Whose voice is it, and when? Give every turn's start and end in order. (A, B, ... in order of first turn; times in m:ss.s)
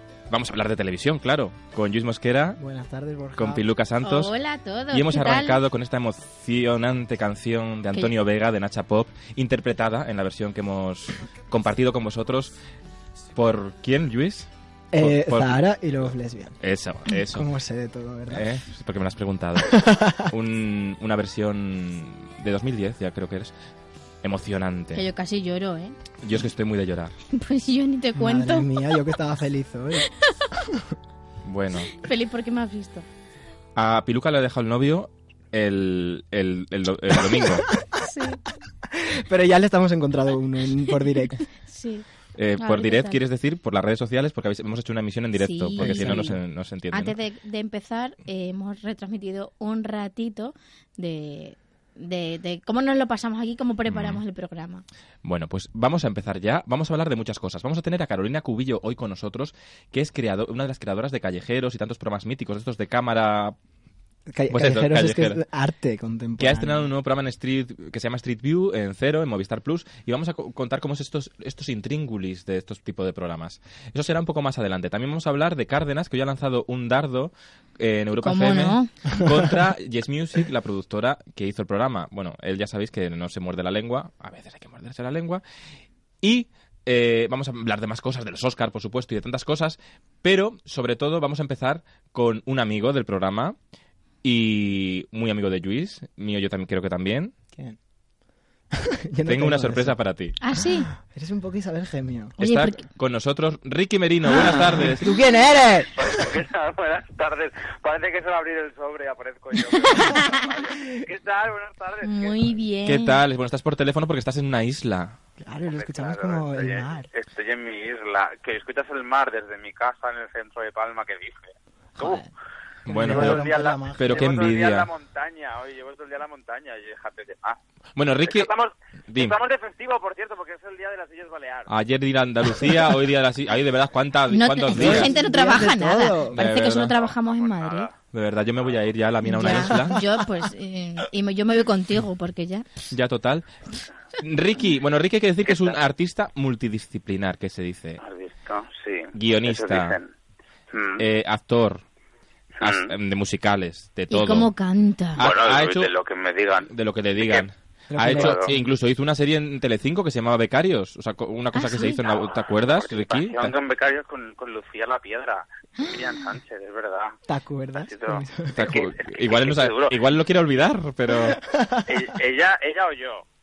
0:00.3-0:02.6 A
0:02.6-0:03.6 B
0:03.4-0:04.3 A
0:04.0-0:05.6 C
0:04.9-0:12.5 A
0:13.3-0:15.6 A
0:14.9-0:16.6 B
0:16.6-0:17.5 A
0:17.3-0:18.4 B
0:18.3-0:23.5 A
0:19.7-0:20.3 B
0:24.2-0:25.0 A
0:24.9-0:26.0 C
0:26.2-0:27.1 A
0:27.3-0:28.7 C
0:28.2-0:30.1 B
0:31.4-0:31.9 A
0:31.9-0:33.0 C
0:33.8-0:37.7 A
0:38.0-0:38.4 C
0:38.9-0:41.4 B
0:41.6-0:42.0 C
0:42.4-0:47.2 A
0:42.6-0:43.2 C
0:45.3-0:46.3 C
0:45.8-0:46.4 B
0:46.9-0:54.8 C
0:53.9-0:54.2 A
0:55.2-1:03.5 A
1:04.3-1:06.9 B
1:04.5-1:05.4 A
1:06.4-1:25.4 A
1:18.2-1:18.9 C
1:26.2-1:33.6 A
1:34.2-1:37.3 A
1:38.7-1:40.0 B
1:39.2-1:40.4 A
1:40.4-1:40.9 C
1:41.0-1:42.3 B
1:42.4-1:42.8 C
1:42.4-1:45.1 A
1:44.6-1:45.9 B
1:46.0-1:52.4 D
1:52.0-1:53.2 C
1:52.8-1:55.2 A
1:55.4-1:57.1 B
1:55.7-2:02.2 D
2:02.8-2:04.9 A
2:02.9-2:04.4 B
2:03.0-2:07.6 D
2:08.0-2:08.5 A
2:08.2-2:11.7 D
2:09.1-2:09.3 A
2:11.7-2:15.1 A
2:14.3-2:17.9 C
2:14.7-2:16.4 B
2:16.3-2:17.0 A
2:17.0-2:17.9 D
2:18.0-2:20.0 A
2:19.2-2:22.7 C
2:19.5-2:20.0 B
2:22.9-2:23.5 A
2:24.2-2:28.0 A
2:25.5-2:25.8 D
2:28.0-2:30.1 D
2:29.1-2:30.0 A
2:30.7-2:31.0 D
2:31.0-2:31.8 A
2:32.6-2:32.9 D
2:32.6-2:34.5 A
2:34.1-2:35.2 C
2:35.1-2:35.9 A
2:35.2-2:37.5 D
2:36.7-2:43.5 A
2:37.9-2:38.5 B
2:38.1-2:38.5 D
2:41.5-2:42.0 C
2:42.6-2:47.2 D
2:47.3-2:48.7 B
2:47.8-2:50.0 D
2:48.5-2:51.4 A
2:51.1-2:52.0 B
2:51.8-2:53.2 D